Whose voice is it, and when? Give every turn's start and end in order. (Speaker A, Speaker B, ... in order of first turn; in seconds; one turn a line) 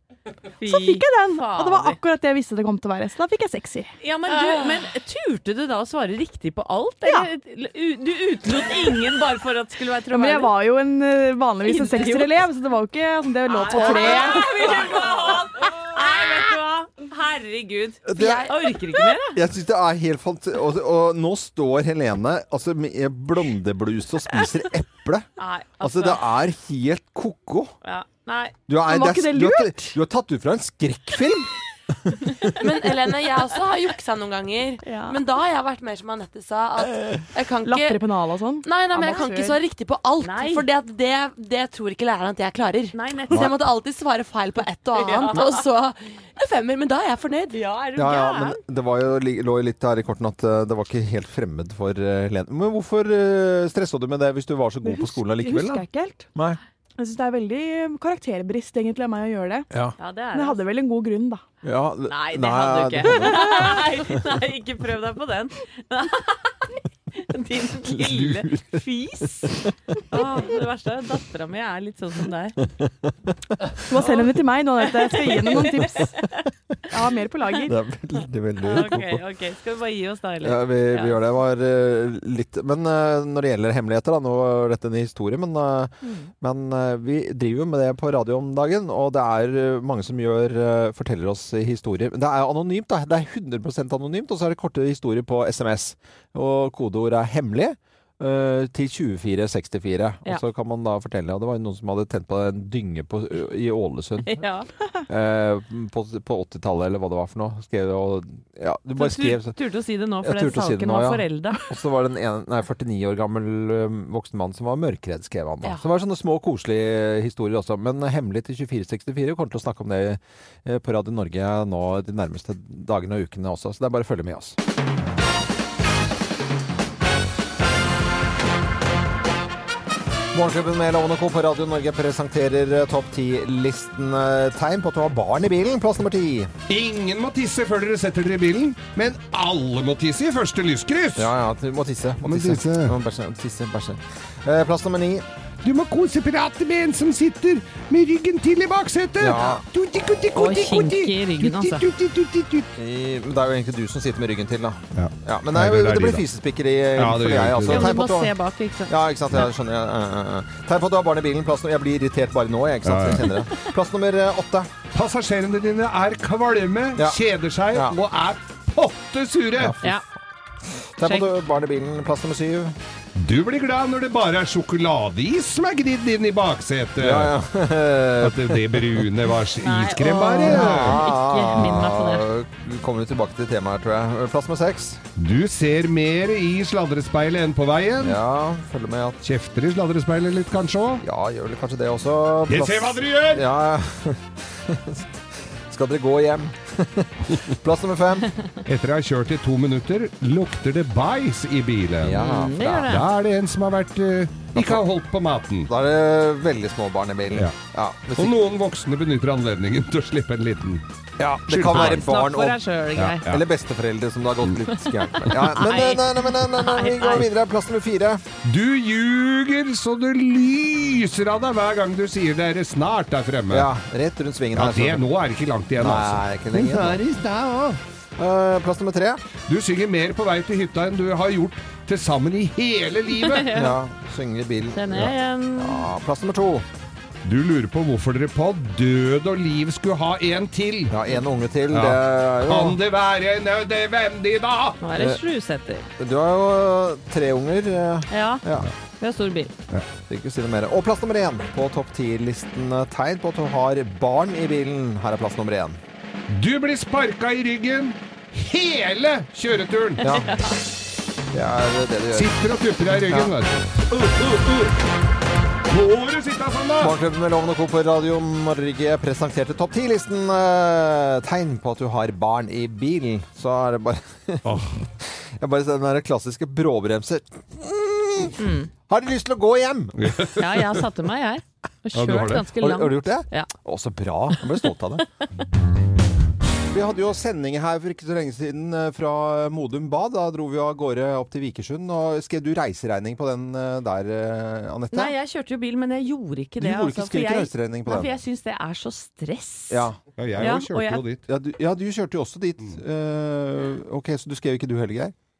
Speaker A: 0.6-2.0
Speaker B: 0.6-4.7
Speaker A: 4.0-10.5
Speaker B: 10.1-15.1
Speaker A: 11.6-12.3
Speaker A: 13.5-19.4
Speaker C: 18.1-27.8
Speaker A: 25.4-26.2
Speaker A: 27.8-28.6
Speaker C: 28.7-32.4
Speaker B: 28.8-30.0
Speaker D: 32.6-38.1
Speaker B: 34.8-35.2
Speaker B: 37.6-39.6
Speaker D: 38.6-47.6
Speaker A: 40.2-40.7
Speaker A: 42.9-43.5
Speaker A: 44.9-45.6
Speaker A: 47.5-48.6
Speaker C: 48.0-56.6
Speaker B: 54.8-56.3
Speaker B: 57.0-59.7
Speaker A: 60.0-60.6
Speaker B: 60.3-61.4
Speaker C: 61.6-63.6
Speaker A: 62.1-69.5
Speaker B: 63.2-63.7
Speaker C: 67.8-69.7
Speaker A: 70.1-72.6
Speaker C: 72.7-73.6
Speaker B: 73.9-76.2
Speaker A: 73.9-74.4
Speaker A: 75.0-76.2
Speaker B: 76.9-77.8
Speaker C: 77.7-79.2
Speaker A: 78.6-81.2
Speaker C: 80.4-104.4
Speaker A: 86.0-86.3
Speaker A: 104.3-104.7
Speaker C: 105.1-109.6
Speaker A: 109.0-111.6
Speaker C: 110.2-124.6
Speaker C: 130.3-136.5
Speaker E: 136.7-141.3
Speaker C: 141.2-145.2
Speaker E: 142.2-143.0
Speaker E: 145.6-152.7
Speaker C: 149.2-149.6
Speaker A: 150.3-151.8
Speaker C: 152.8-158.3
Speaker E: 154.9-156.2
Speaker E: 157.0-158.0
Speaker A: 157.7-159.0
Speaker C: 158.9-164.7
Speaker E: 162.8-163.2
Speaker E: 164.9-169.8
Speaker C: 167.7-168.0
Speaker C: 169.6-170.0
Speaker C: 170.8-172.8
Speaker A: 171.0-171.3
Speaker E: 173.2-177.3
Speaker C: 177.0-179.1
Speaker E: 178.2-181.0
Speaker A: 179.6-182.3
Speaker C: 180.4-185.0
Speaker E: 185.2-188.2
Speaker C: 188.0-189.2
Speaker E: 189.2-191.0
Speaker C: 191.0-198.3
Speaker E: 192.5-193.5
Speaker E: 198.7-202.2
Speaker C: 202.0-202.9
Speaker A: 202.2-203.1
Speaker E: 202.9-205.7
Speaker C: 204.6-204.8
Speaker C: 205.7-208.4
Speaker E: 208.2-210.8
Speaker C: 211.2-212.6
Speaker E: 211.5-212.0
Speaker A: 211.8-213.2
Speaker E: 213.0-213.4
Speaker C: 213.2-218.2
Speaker A: 215.0-217.3
Speaker E: 218.4-223.7
Speaker C: 223.5-225.1
Speaker E: 224.5-227.8
Speaker C: 225.8-227.2
Speaker C: 228.2-229.2
Speaker E: 229.5-233.6
Speaker A: 233.2-233.8
Speaker C: 233.5-234.9
Speaker A: 234.7-235.9
Speaker C: 235.6-236.7
Speaker E: 237.2-241.0
Speaker C: 240.9-242.8
Speaker E: 241.7-244.8
Speaker A: 244.8-245.9
Speaker C: 245.0-245.2
Speaker C: 246.0-248.7
Speaker A: 248.1-248.4
Speaker A: 249.0-249.5
Speaker C: 250.0-255.8
Speaker E: 256.3-260.1
Speaker C: 260.0-260.4
Speaker C: 261.3-262.3
Speaker E: 262.1-264.7
Speaker E: 265.7-266.9
Speaker C: 266.8-280.3
Speaker E: 274.4-274.8
Speaker A: 278.4-278.7
Speaker E: 280.0-280.8
Speaker A: 280.4-283.5
Speaker E: 281.9-282.5
Speaker C: 282.6-285.1
Speaker C: 286.7-295.1
Speaker A: 294.9-301.1
Speaker C: 296.6-298.1
Speaker C: 299.7-300.5
Speaker E: 300.2-301.2
Speaker C: 301.3-305.1